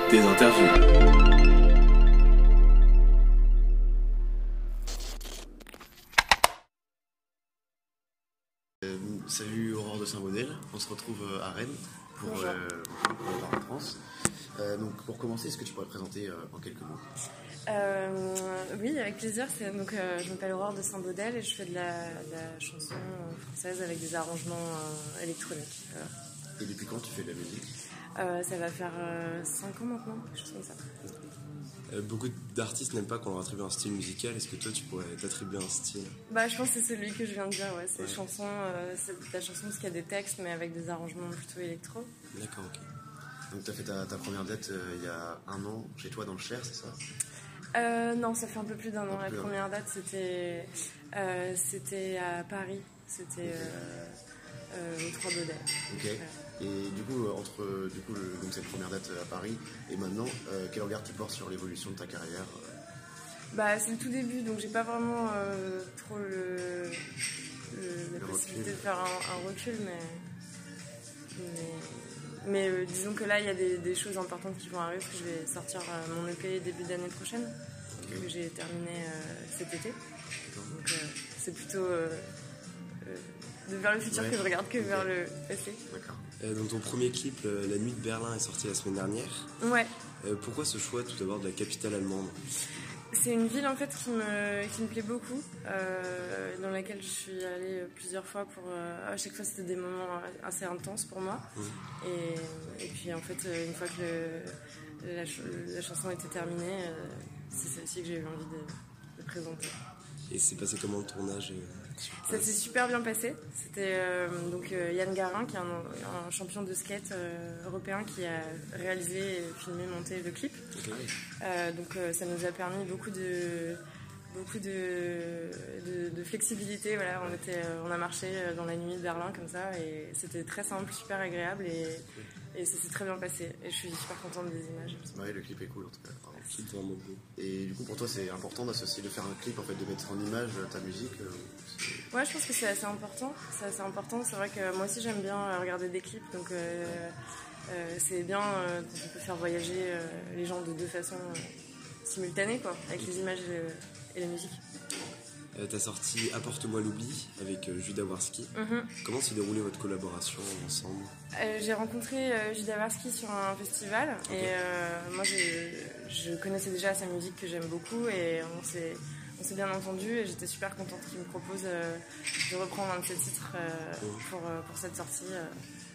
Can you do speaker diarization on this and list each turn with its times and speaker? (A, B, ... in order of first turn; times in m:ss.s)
0:00.1-0:00.8 A
0:08.8-0:14.0 B
0:12.2-0:12.6 C
0:14.6-0:17.1 B
0:17.7-0:26.1 C
0:26.6-0:27.7 B
0:28.2-0:30.8 C
0:31.9-0:36.2 A
0:36.3-0:42.1 C
0:38.0-0:38.2 A
0:42.3-0:42.9 A
0:43.5-0:47.0 B
0:47.8-0:54.2 C
0:49.1-0:49.6 B
0:53.4-0:53.8 B
0:54.7-0:56.4 C
0:55.9-1:02.8 B
1:03.5-1:07.1 C
1:07.7-1:10.3 C
1:08.1-1:08.9 B
1:11.4-1:17.6 C
1:18.0-1:18.3 B
1:18.1-1:20.0 C
1:20.5-1:20.7 B
1:20.7-1:22.3 C
1:23.0-1:25.8 C
1:24.1-1:25.0 B
1:25.9-1:26.2 B
1:26.4-1:29.5 A
1:29.6-1:29.9 C
1:30.2-1:32.4 A
1:33.1-1:41.5 C
1:42.0-1:49.8 C
1:50.3-1:52.6 A
1:52.2-2:00.7 C
2:00.7-2:01.1 A
2:01.4-2:15.2 C
2:15.1-2:16.5 B
2:16.5-2:17.2 A
2:17.4-2:22.1 B
2:22.1-2:27.1 C
2:27.7-2:34.6 C
2:35.6-2:41.1 A
2:38.5-2:38.9 C
2:41.3-2:55.5 C
2:44.3-2:44.6 A
2:54.0-2:54.3 A